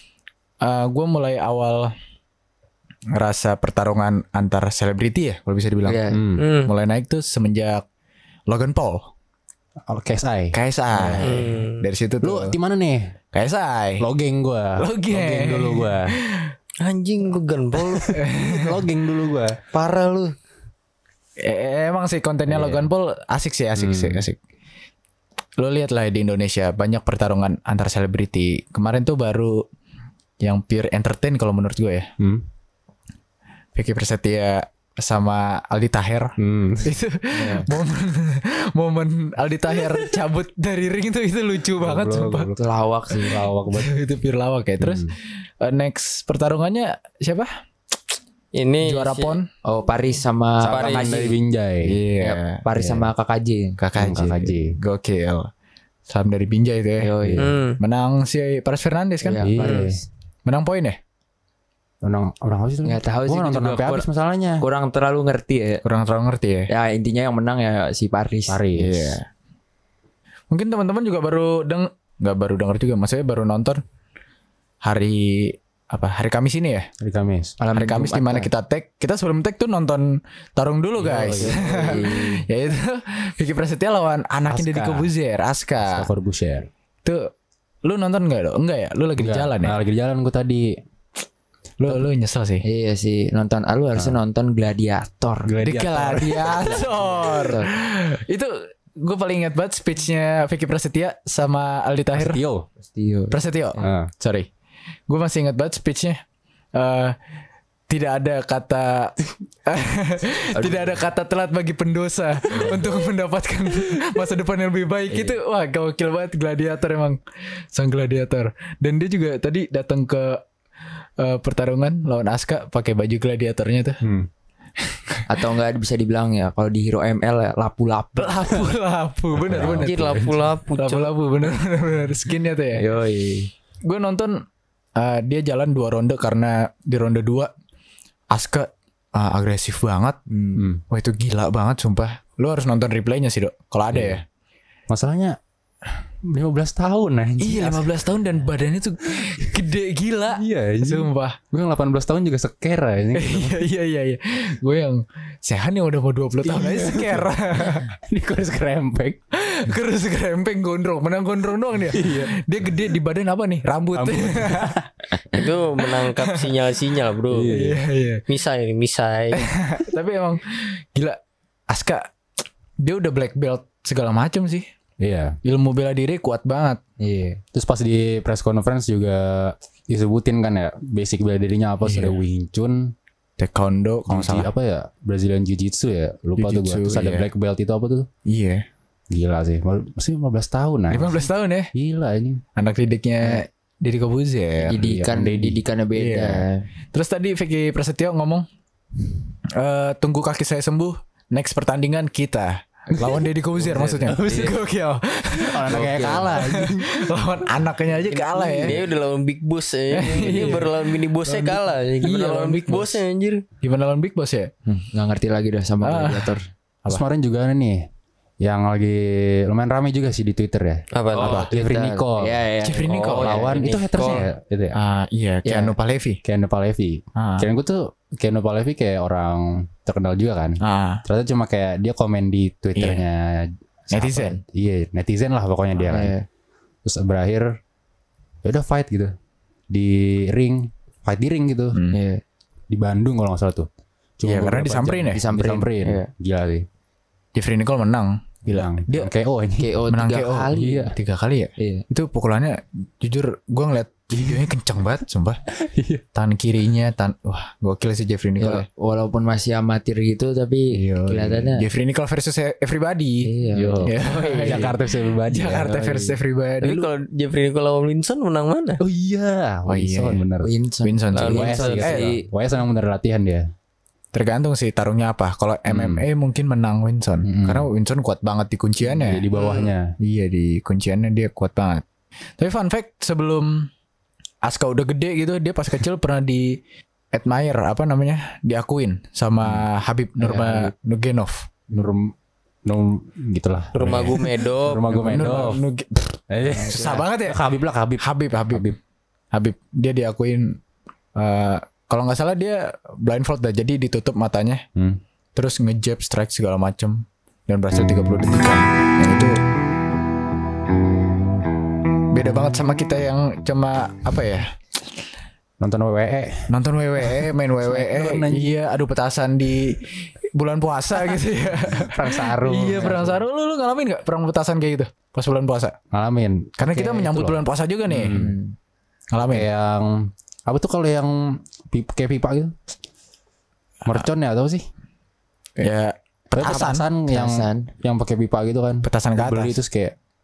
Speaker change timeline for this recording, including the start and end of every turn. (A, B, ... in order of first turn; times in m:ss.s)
0:00.6-0:01.9 A
0:03.2-0:06.0 A
0:05.9-0:06.2 B
0:06.1-0:06.4 C
0:06.4-0:06.7 D
0:06.6-0:07.8 A
0:08.5-0:09.1 A
0:09.9-0:11.3 C
0:10.5-0:12.6 A
0:11.2-0:11.8 D
0:12.2-0:13.0 C
0:13.3-0:14.0 A
0:14.0-0:16.1 C
0:14.8-0:16.5 A
0:16.8-0:18.4 D
0:18.1-0:18.8 A
0:18.5-0:19.6 C
0:19.7-0:20.3 D
0:21.4-0:24.4 A
0:22.5-0:22.9 C
0:23.8-0:24.2 C
0:25.6-0:29.6 A
0:30.4-0:32.1 A
0:33.8-0:42.5 A
0:36.4-0:37.0 C
0:37.3-0:37.7 B
0:41.8-0:42.7 C
0:42.6-0:43.4 B
0:43.2-0:47.5 A
0:43.2-0:44.0 C
0:44.8-0:45.1 C
0:48.5-0:49.4 D
0:48.8-0:49.5 A
0:49.6-0:51.2 B
0:50.6-0:52.0 C
0:50.7-0:51.4 D
0:51.8-0:52.6 A
0:52.2-0:53.8 B
0:52.8-0:53.1 C
0:53.8-0:55.5 A
0:54.0-0:54.7 C
0:56.1-0:57.2 A
0:57.0-0:57.5 B
0:57.2-0:57.6 C
0:57.4-0:57.8 D
0:57.8-0:59.5 A
0:59.2-1:00.0 B
0:59.4-1:00.0 C
0:59.6-0:59.9 D
1:00.5-1:01.0 A
1:02.0-1:04.6 C
1:02.8-1:04.1 B
1:04.6-1:05.8 B
1:05.8-1:06.7 A
1:06.7-1:08.6 B
1:08.5-1:09.2 C
1:08.8-1:09.3 A
1:10.5-1:13.8 A
1:14.8-1:16.9 A
1:17.0-1:17.6 C
1:17.6-1:18.5 B
1:17.7-1:26.1 A
1:21.0-1:22.2 C
1:21.3-1:22.4 B
1:24.5-1:25.1 C
1:25.8-1:26.7 C
1:27.0-1:27.3 A
1:27.8-1:29.8 A
1:29.2-1:30.6 C
1:31.8-1:32.6 A
1:32.6-1:35.5 B
1:35.5-1:36.9 C
1:35.6-1:42.4 A
1:36.5-1:37.7 B
1:42.2-1:42.7 C
1:42.9-1:43.9 B
1:43.3-1:44.5 A
1:43.8-1:44.1 C
1:45.1-1:46.2 A
1:46.8-1:47.2 A
1:47.9-1:57.2 A
1:50.6-1:51.0 B
1:55.1-1:55.4 B
1:57.7-2:00.4 A
2:01.2-2:04.0 A
2:04.0-2:04.3 C
2:04.8-2:05.2 A
2:05.3-2:08.5 B
2:08.2-2:10.2 A
2:09.4-2:10.4 C
2:09.8-2:11.1 D
2:10.8-2:12.8 A
2:12.8-2:13.5 B
2:13.8-2:14.4 A
2:15.0-2:17.5 A
2:18.3-2:20.2 A
2:20.3-2:20.7 B
2:20.6-2:20.8 C
2:20.9-2:24.2 A
2:23.9-2:24.2 C
2:24.9-2:25.4 C
2:26.3-2:28.0 C
2:27.4-2:31.4 A
2:30.3-2:33.6 C
2:33.2-2:37.9 A
2:36.4-2:39.7 C
2:39.4-2:44.8 A
2:41.9-2:42.4 C
2:44.0-2:44.9 C
2:45.3-2:47.6 D
2:45.8-2:46.2 A
2:47.3-2:47.8 C
2:47.5-2:48.2 A
2:48.3-2:49.5 D
2:49.3-2:52.1 A
2:52.8-2:54.7 A
2:55.0-2:55.4 C
2:55.4-2:56.8 A
2:57.0-2:57.4 B
2:57.5-3:02.9 C
3:01.8-3:02.2 A
3:03.4-3:04.5 A
3:04.1-3:08.1 C
3:06.4-3:07.3 A
3:08.3-3:08.6 A
3:09.1-3:12.4 C
3:10.9-3:11.7 A
3:12.6-3:14.8 A
3:14.6-3:16.6 B
3:14.7-3:15.6 C
3:16.0-3:18.5 A
3:19.6-3:28.8 A
3:23.0-3:24.6 C
3:25.4-3:27.0 C
3:25.8-3:26.2 B
3:28.1-3:33.4 D
3:29.9-3:33.0 A
3:33.6-3:34.5 A
3:34.7-3:36.4 B
3:35.8-3:37.0 A
3:36.9-3:37.8 C
3:38.4-3:44.8 C
3:40.9-3:41.4 D
3:41.2-3:41.5 A
3:41.3-3:43.9 B
3:42.6-3:46.2 A
3:43.0-3:44.2 D
3:45.5-3:45.7 B
3:46.2-3:56.1 C
3:47.2-3:47.5 A
3:50.6-3:51.0 A
3:52.8-3:53.0 A
3:53.9-3:54.4 A
3:55.8-3:56.2 B
3:56.8-3:57.5 C
3:58.4-3:59.1 C
3:59.7-4:01.8 C
4:01.7-4:02.0 A
4:01.9-4:02.2 B
4:02.7-4:03.7 C
4:04.2-4:06.7 C
4:04.2-4:05.2 A
4:05.1-4:06.1 B
4:07.4-4:09.1 A
4:08.5-4:09.7 C
4:09.6-4:10.9 B
4:09.9-4:15.4 A
4:10.5-4:10.9 C
4:11.6-4:11.8 B
4:14.2-4:14.5 C
4:15.6-4:16.0 C
4:16.1-4:18.7 A
4:18.4-4:21.6 B
4:20.7-4:23.3 A
4:23.2-4:24.8 B
4:23.6-4:26.0 C
4:23.8-4:26.9 A
4:25.7-4:26.2 B
4:26.6-4:28.8 D
4:28.8-4:30.5 C
4:29.7-4:30.2 A
4:30.4-4:32.3 B
4:30.8-4:32.1 A
4:31.1-4:31.8 D
4:31.3-4:33.4 C
4:34.1-4:39.3 A
4:35.7-4:36.0 C
4:37.2-4:37.7 C
4:38.8-4:40.0 C
4:39.3-4:39.7 D
4:40.0-4:41.8 A
4:42.4-4:43.7 A
4:44.4-4:46.6 A
4:47.1-4:51.5 A
4:49.4-4:49.7 C
4:50.2-4:50.7 C
4:51.7-4:52.1 C
4:52.7-4:55.6 C
4:53.8-4:55.4 D
4:54.9-4:57.4 A
4:56.3-4:58.8 C
4:58.0-4:58.8 A
4:59.3-5:00.6 A
5:01.2-5:04.6 A
5:05.4-5:09.4 A
5:12.1-5:14.5 A
5:15.6-5:16.5 C
5:16.5-5:25.8 A
5:17.0-5:18.5 C
5:21.7-5:23.2 C
5:25.9-5:28.3 C
5:26.6-5:28.1 A
5:28.0-5:28.6 B
5:29.1-5:29.5 A
5:29.3-5:31.2 C
5:31.7-5:32.5 C
5:33.9-5:34.6 C
5:35.6-5:36.9 A
5:36.3-5:40.0 C
5:37.1-5:37.7 B
5:38.8-5:39.6 A